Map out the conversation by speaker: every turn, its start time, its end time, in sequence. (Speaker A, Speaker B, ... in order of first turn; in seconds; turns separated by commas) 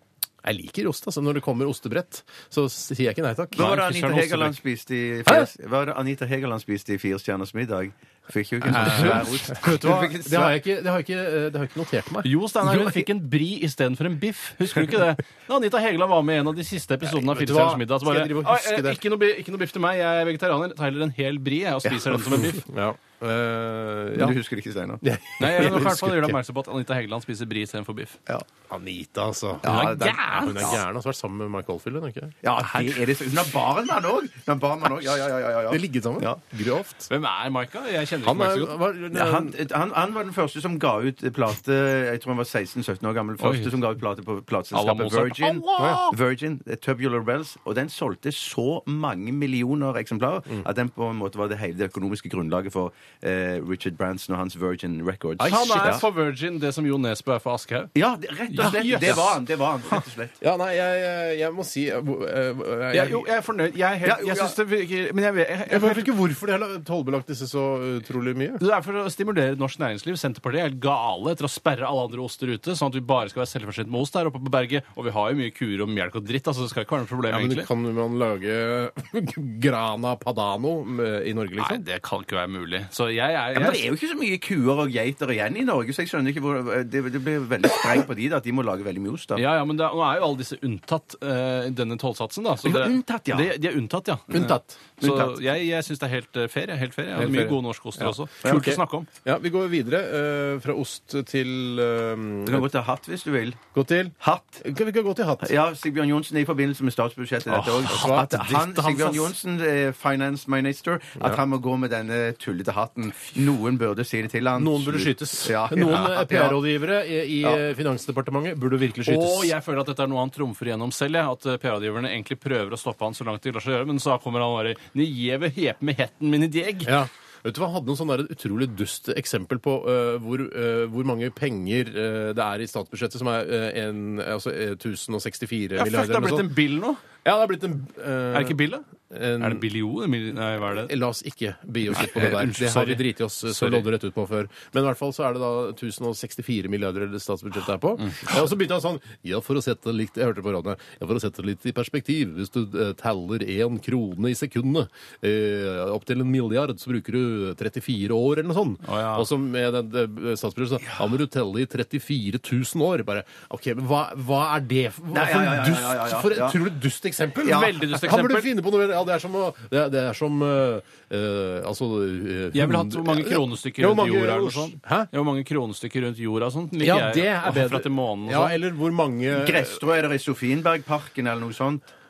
Speaker A: 0.4-4.0, Speaker B: 3.5-4.5, Speaker C: 3.5-10.6, Speaker A: 8.7-13.1, Speaker B: 8.7-9.3, Speaker B: 12.2-22.7, Speaker A: 17.1-19.0, Speaker A: 22.3-24.4, Speaker C: 24.2-25.1, Speaker A: 25.0-26.4, Speaker B: 25.4-28.2, Speaker A: 28.7-32.4, Speaker C: 29.6-30.8, Speaker C: 32.4-36.4, Speaker A: 35.7-37.1, Speaker B: 37.1-38.8, Speaker A: 38.2-39.6, Speaker C: 39.1-56.0, Speaker B: 43.4-43.8, Speaker B: 44.7-45.9, Speaker A: 45.4-46.2, Speaker A: 55.4-56.0, Speaker B: 55.4-57.9, Speaker C: 58.0-60.4, Speaker B: 58.5-59.4, Speaker A: 60.4-63.3, Speaker B: 62.9-66.1, Speaker C: 64.0-64.5, Speaker A: 65.7-68.6, Speaker B: 68.6-77.7, Speaker A: 77.3-81.8, Speaker B: 81.6-83.8, Speaker C: 83.5-89.4, Speaker B: 89.4-99.1, Speaker C: 92.6-93.5, Speaker A: 94.3-94.8, Speaker C: 95.0-95.4, Speaker A: 97.2-102.7, Speaker C: 102.5-103.6, Speaker A: 103.7-105.5, Speaker C: 104.2-104.6, Speaker C: 105.4-116.6, Speaker B: 107.5-108.1, Speaker A: 107.8-109.3, Speaker A: 114.6-119.5, Speaker B: 119.0-127.0, Speaker A: 126.8-136.5, Speaker B: 135.8-137.0, Speaker A: 137.2-139.7, Speaker B: 138.3-138.9, Speaker B: 139.4-140.9, Speaker A: 140.7-175.1, Speaker B: 141.9-143.9, Speaker B: 158.8-159.3, Speaker C: 165.1-166.6, Speaker B: 167.4-168.5, Speaker C: 167.5-167.8, Speaker B: 172.5-178.6, Speaker A: 176.8-179.8, Speaker C: 179.3-181.8